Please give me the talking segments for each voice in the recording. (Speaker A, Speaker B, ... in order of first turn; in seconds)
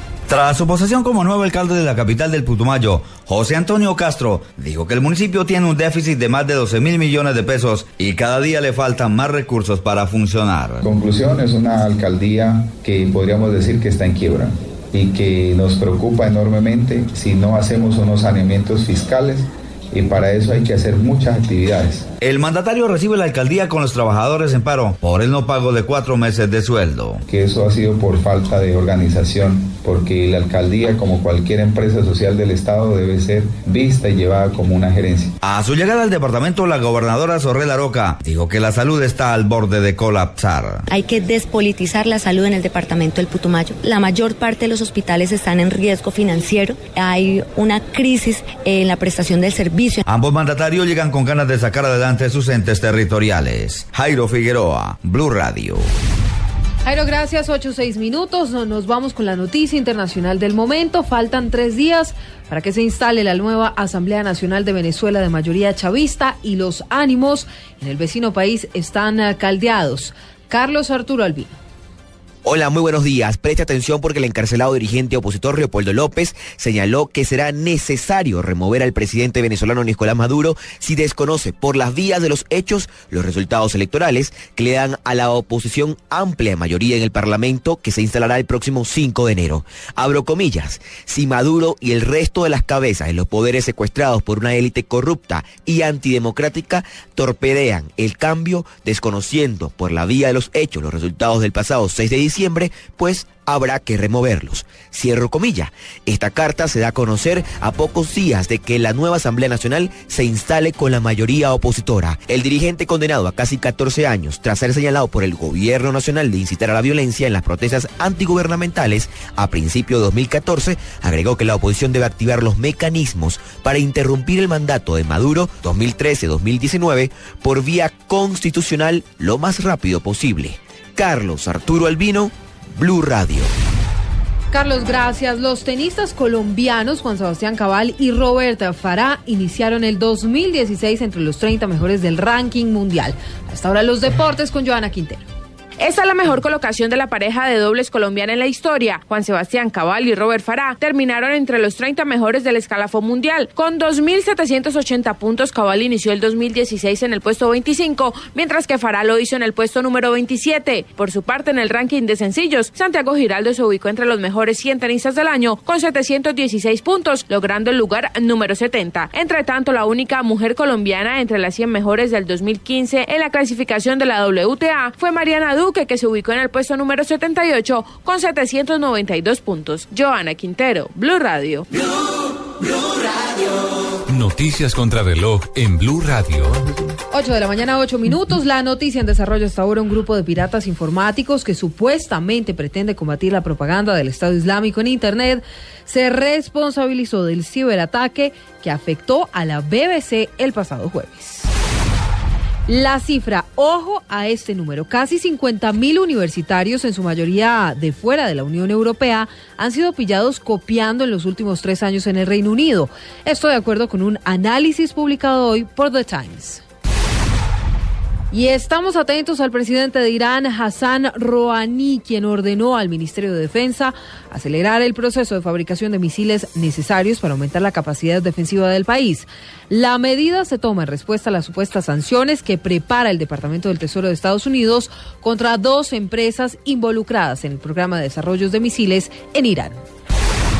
Speaker A: 0.3-10.8, 22.2-27.2, 35.4-40.9, 50.1-55.8
Speaker B: 10.8-22.1, 27.3-35.4
Speaker C: 40.9-50.0
Speaker D: 56.9-71.6, 134.5-145.2, 187.1-201.5, 202.7-216.6, 218.3-239.8
Speaker E: 72.4-133.5
Speaker F: 145.8-181.7
Speaker G: 184.1-186.6